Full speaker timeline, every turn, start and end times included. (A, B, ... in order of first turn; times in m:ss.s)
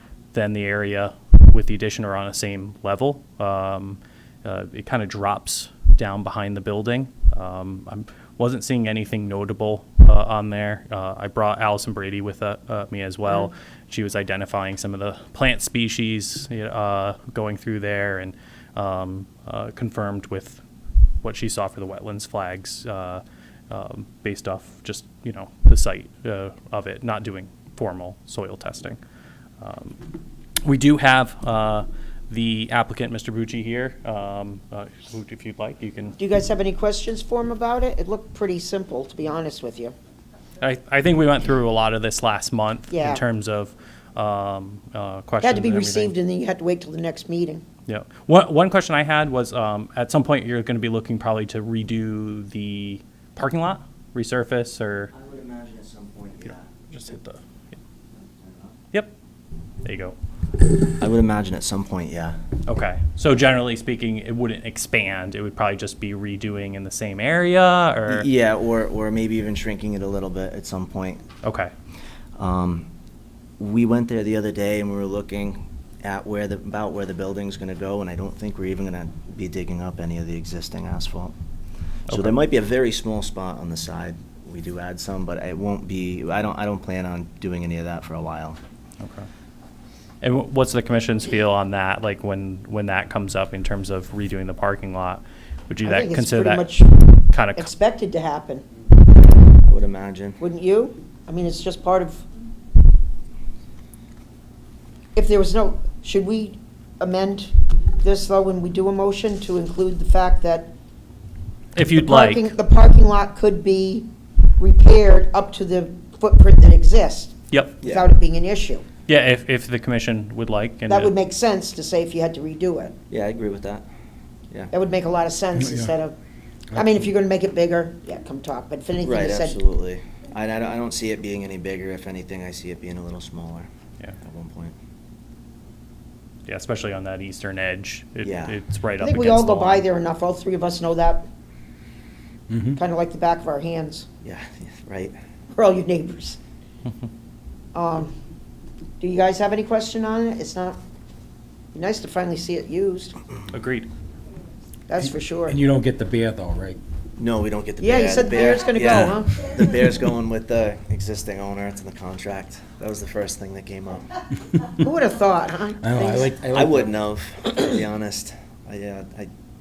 0:00.3-0:20.6 A
0:21.2-0:29.0 A
0:29.6-0:30.1 A
0:30.6-0:36.2 A
0:36.2-0:40.0 B
0:40.6-0:46.2 A
0:42.9-0:43.2 B
0:45.4-0:47.6 B
0:47.9-0:55.1 A
0:55.1-0:56.7 C
0:56.9-0:57.4 A
0:58.2-0:58.8 C
0:59.8-1:00.2 A
1:01.0-1:02.4 C
1:02.7-1:08.3 A
1:08.1-1:11.2 C
1:11.4-1:11.7 A
1:12.4-1:12.9 C
1:13.6-1:21.3 C
1:22.1-1:22.4 A
1:22.1-1:28.6 C
1:29.0-1:29.3 A
1:30.2-1:36.8 A
1:35.8-1:38.6 B
1:37.3-1:37.7 A
1:39.6-1:40.4 C
1:40.4-1:42.2 B
1:45.2-1:50.7 B
1:51.8-1:52.6 A
1:51.9-1:58.8 B
1:57.5-1:57.8 A
1:57.8-1:58.1 C
1:59.1-2:01.1 A
2:00.9-2:03.0 B
2:03.1-2:03.9 C
2:04.7-2:06.2 B
2:05.6-2:05.9 D
2:06.7-2:07.0 D
2:06.7-2:09.6 B
2:09.0-2:13.7 C
2:14.2-2:14.8 C
2:16.5-2:19.8 A
2:18.2-2:18.6 C
2:19.0-2:21.3 B
2:22.5-2:22.8 D
2:22.8-2:24.1 B
2:24.2-2:25.2 C
2:25.5-2:26.4 B
2:27.7-2:28.1 B
2:29.0-2:30.8 B
2:31.7-2:33.2 B
2:33.5-2:33.9 A
2:34.9-2:35.6 B
2:35.0-2:36.8 D
2:37.2-2:44.1 C
2:37.8-2:39.5 B
2:38.9-2:39.2 D
2:44.8-2:46.4 B
2:45.8-2:46.9 D
2:46.4-2:49.3 C